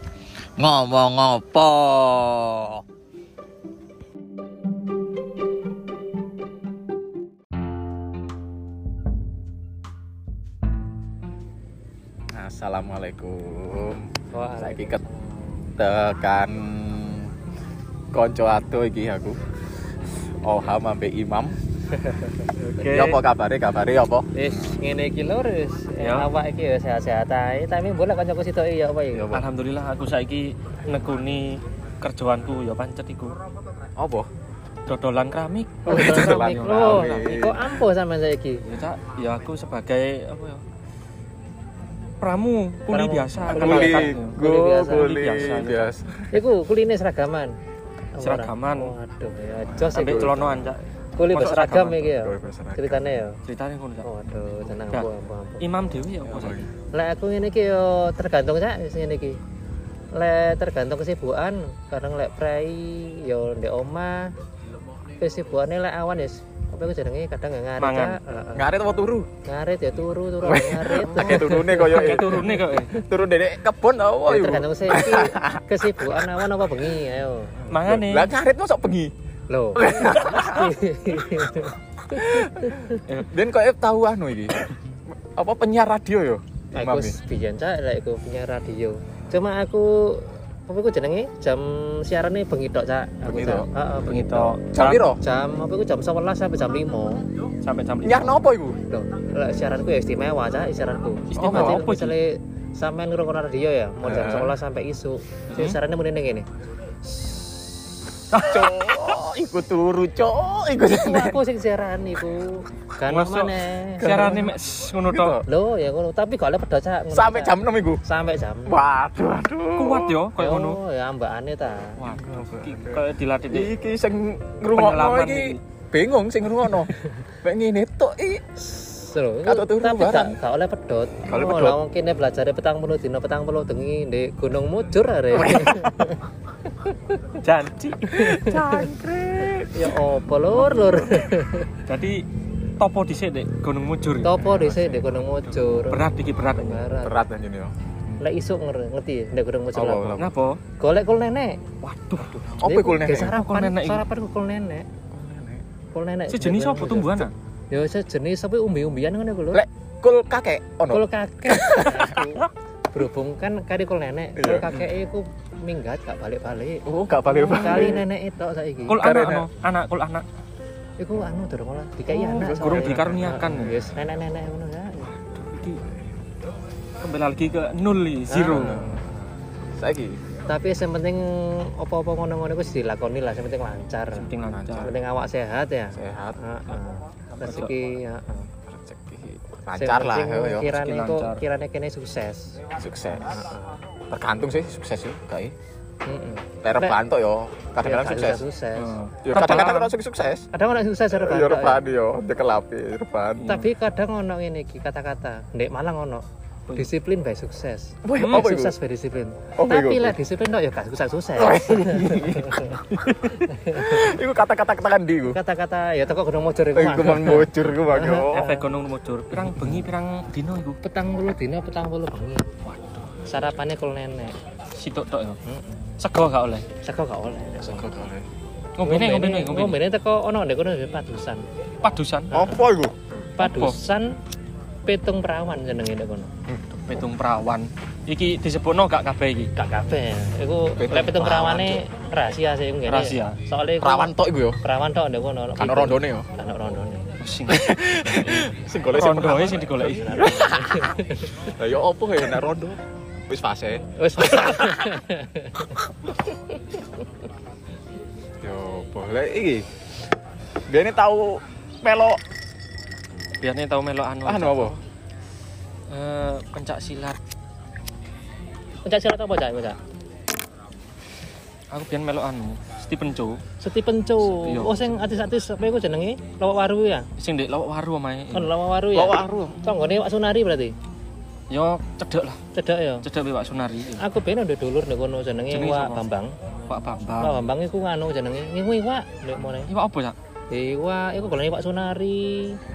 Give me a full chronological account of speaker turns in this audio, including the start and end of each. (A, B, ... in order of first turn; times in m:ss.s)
0:00.6-0:02.8 A
0:12.3-0:15.0 A
0:14.3-0:15.7 B
0:15.8-0:17.3 A
0:18.1-0:19.5 A
0:20.4-0:21.6 A
0:21.9-0:22.3 B
0:22.6-0:23.2 C
0:22.8-0:24.6 A
0:24.4-0:29.3 B
0:26.0-0:26.3 C
0:29.1-0:29.5 A
0:29.3-0:33.4 C
0:34.0-0:34.3 A
0:34.9-0:37.2 C
0:35.9-0:38.7 B
0:35.9-0:37.7 A
0:38.7-0:40.6 C
0:42.2-0:45.9 C
0:42.9-0:45.4 B
0:43.5-0:46.4 A
0:46.3-0:47.6 B
0:48.2-0:53.4 B
0:48.2-0:48.9 C
0:49.7-0:50.4 A
0:49.9-0:52.2 C
0:52.2-0:53.1 A
0:53.5-0:54.1 C
0:54.0-0:55.7 B
0:55.6-0:56.7 C
0:56.3-0:56.7 A
0:56.9-0:59.4 B
1:00.1-1:04.3 B
1:05.2-1:08.7 B
1:07.8-1:08.2 C
1:08.6-1:09.3 A
1:09.4-1:13.1 B
1:10.4-1:16.3 A
1:11.1-1:12.9 C
1:14.3-1:17.7 B
1:17.7-1:18.3 C
1:17.7-1:19.1 A
1:19.5-1:23.0 B
1:19.8-1:20.7 A
1:22.1-1:24.7 A
1:25.3-1:27.2 A
1:26.8-1:34.6 B
1:33.3-1:33.7 A
1:34.1-1:35.0 C
1:34.7-1:35.2 A
1:35.2-1:37.3 B
1:37.6-1:38.4 C
1:38.0-1:38.8 A
1:38.9-1:46.5 B
1:41.3-1:42.1 C
1:41.4-1:41.8 A
1:44.0-1:44.6 A
1:48.3-1:49.0 C
1:48.3-1:51.4 A
1:51.0-1:54.5 B
1:53.1-1:55.4 C
1:54.1-1:54.5 A
1:55.1-1:55.4 A
1:55.4-1:58.8 B
1:57.1-1:58.0 A
1:58.7-2:00.2 A
1:59.8-2:00.8 C
2:00.4-2:02.0 B
2:02.0-2:03.7 C
2:02.1-2:08.4 A
2:04.7-2:05.6 C
2:08.6-2:16.2 B
2:09.4-2:10.4 A
2:11.2-2:11.8 A
2:15.3-2:16.2 A
2:16.8-2:17.2 B
2:17.4-2:18.8 C
2:18.2-2:18.8 B
2:18.2-2:19.9 A
2:19.7-2:21.8 B
2:20.6-2:21.2 C
2:21.9-2:22.2 C
2:22.8-2:25.0 C
2:24.2-2:27.2 B
2:24.4-2:25.0 A
2:25.9-2:26.9 C
2:27.0-2:27.7 A
2:28.2-2:30.2 B
2:29.7-2:30.3 A
2:30.2-2:30.6 C
2:30.8-2:31.6 B
2:31.8-2:32.5 C
2:32.5-2:33.4 A
2:32.6-2:34.9 B
2:33.3-2:34.0 C
2:35.1-2:35.6 A
2:35.9-2:39.6 B
2:36.3-2:37.3 C
2:39.5-2:42.2 A
2:40.9-2:49.0 B
2:44.4-2:44.7 A
2:46.8-2:48.1 A
2:48.9-2:50.2 C
2:49.0-2:49.5 A
2:51.0-2:55.1 B
2:52.1-2:53.8 C
2:52.8-2:53.9 A
2:55.0-2:55.8 C
2:57.0-2:58.9 C
2:58.3-2:59.0 B
2:58.6-2:59.2 A
2:59.8-3:00.2 A
3:00.5-3:04.3 B
3:04.1-3:04.9 C
3:04.5-3:04.9 A
3:04.8-3:08.5 B
3:06.0-3:06.4 A
3:07.4-3:07.7 C
3:08.7-3:10.7 A
3:09.8-3:12.6 B
3:10.6-3:11.4 C
3:12.7-3:13.6 A
3:13.2-3:13.8 B
3:14.1-3:15.5 A
3:16.1-3:17.0 B
3:16.6-3:18.4 A
3:17.8-3:19.8 B
3:18.8-3:19.9 C
3:19.2-3:20.5 A
3:20.5-3:21.8 B
3:21.1-3:23.5 A
3:23.4-3:23.7 C
3:23.4-3:32.8 B
3:28.0-3:28.8 A
3:28.2-3:28.5 C
3:29.6-3:30.2 A
3:31.4-3:35.4 A
3:33.4-3:34.1 B
3:35.3-3:38.7 B
3:36.8-3:38.5 A
3:38.3-3:40.8 C
3:40.8-3:42.5 B
3:42.6-3:43.1 C
3:43.2-3:44.4 B
3:44.8-3:45.4 C
3:45.5-3:45.8 B
3:46.0-3:46.7 C
3:46.8-3:47.9 B
3:47.6-3:48.3 A
3:48.8-3:49.8 C
3:48.8-3:51.4 B
3:51.8-3:52.4 C
3:52.3-3:52.6 B
3:52.3-3:53.0 A
3:53.4-3:54.2 B
3:53.4-3:53.8 C
3:54.9-3:56.3 B
3:56.5-3:59.5 C
3:59.6-4:07.2 B
4:00.8-4:01.8 A
4:02.9-4:03.4 C
4:03.8-4:04.6 A
4:05.6-4:06.3 A
4:07.2-4:10.2 C
4:07.5-4:15.0 A
4:09.8-4:11.5 B
4:13.9-4:15.8 B
4:18.4-4:19.7 A
4:20.7-4:22.2 A
4:23.4-4:24.8 C
4:24.2-4:24.8 A
4:25.9-4:27.2 C
4:28.8-4:29.8 B
4:31.7-4:33.4 C
4:33.6-4:37.1 B
4:34.3-4:35.1 C
4:37.2-4:38.5 C
4:38.3-4:40.7 B
4:38.9-4:39.6 A
4:41.5-4:42.4 C
4:42.5-4:43.1 B
4:43.0-4:44.0 C
4:44.0-4:46.3 B
4:45.5-4:46.0 C
4:46.7-4:47.4 C
4:47.2-4:49.7 B
4:49.7-4:50.2 C
4:50.5-4:52.6 B